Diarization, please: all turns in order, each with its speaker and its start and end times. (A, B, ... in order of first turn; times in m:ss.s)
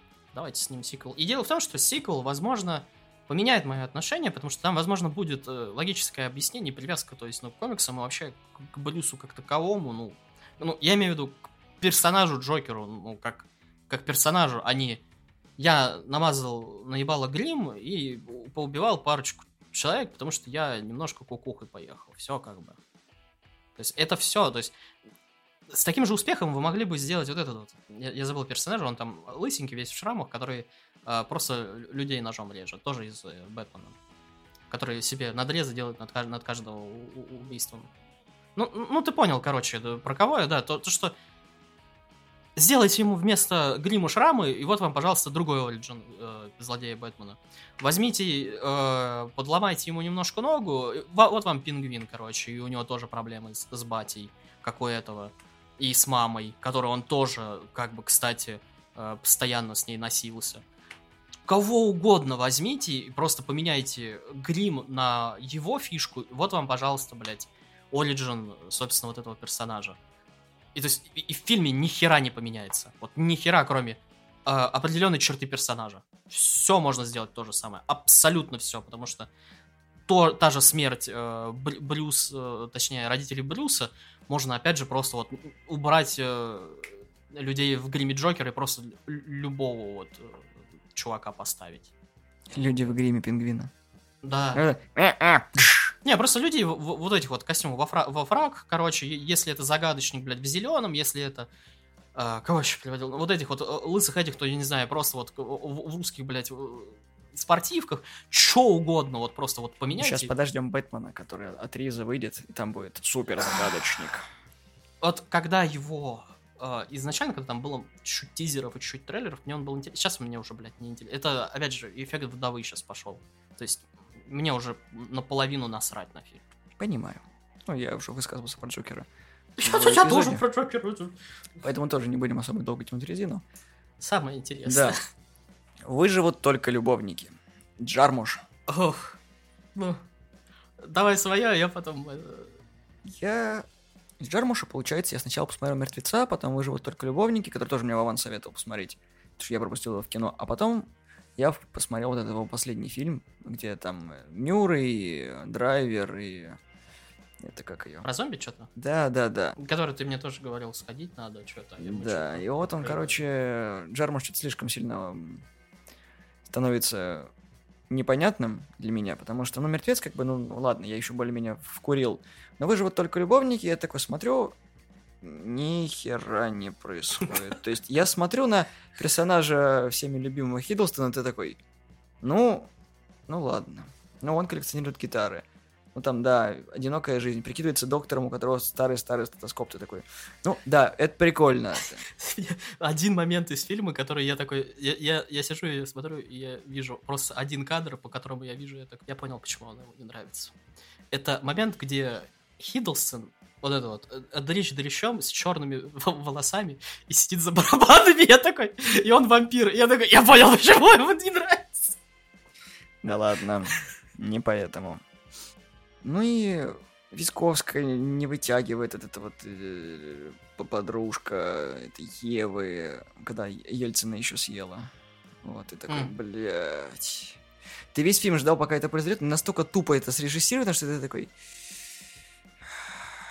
0:00.3-0:15.0 A
0:15.6-0:22.8 A
0:23.8-0:24.7 A
0:25.7-0:34.0 A
0:34.7-0:37.9 A
0:38.6-0:41.1 A
0:42.6-1:00.6 A
1:01.5-1:10.0 A
1:10.8-1:19.3 A
1:20.1-1:31.9 A
1:32.5-1:33.7 B
1:34.2-1:34.6 A
1:34.6-1:35.9 B
1:36.0-1:41.5 A
1:42.2-1:50.3 A
1:50.0-1:54.2 B
1:55.0-2:06.4 A
2:06.8-2:09.1 B
2:09.6-2:11.2 A
2:09.6-2:10.4 B
2:11.6-2:13.4 B
2:14.0-2:15.0 A
2:14.7-2:15.0 B
2:15.8-2:18.4 B
2:18.7-2:19.2 A
2:19.8-2:20.0 A
2:20.8-2:22.6 A
2:23.0-2:23.7 B
2:24.2-2:36.6 B
2:37.4-2:38.1 B
2:38.0-2:38.7 A
2:38.8-2:39.6 B
2:39.6-2:43.2 A
2:41.8-2:45.4 B
2:46.5-2:47.3 B
2:47.9-2:54.6 B
2:55.2-3:01.6 B
3:02.2-3:02.7 B
3:03.3-3:12.0 B
3:12.1-3:20.6 A
3:21.1-3:32.0 A
3:33.0-3:35.0 B
3:36.0-3:44.9 B
3:45.4-3:47.4 B
3:45.9-3:46.2 A
3:47.9-3:51.3 B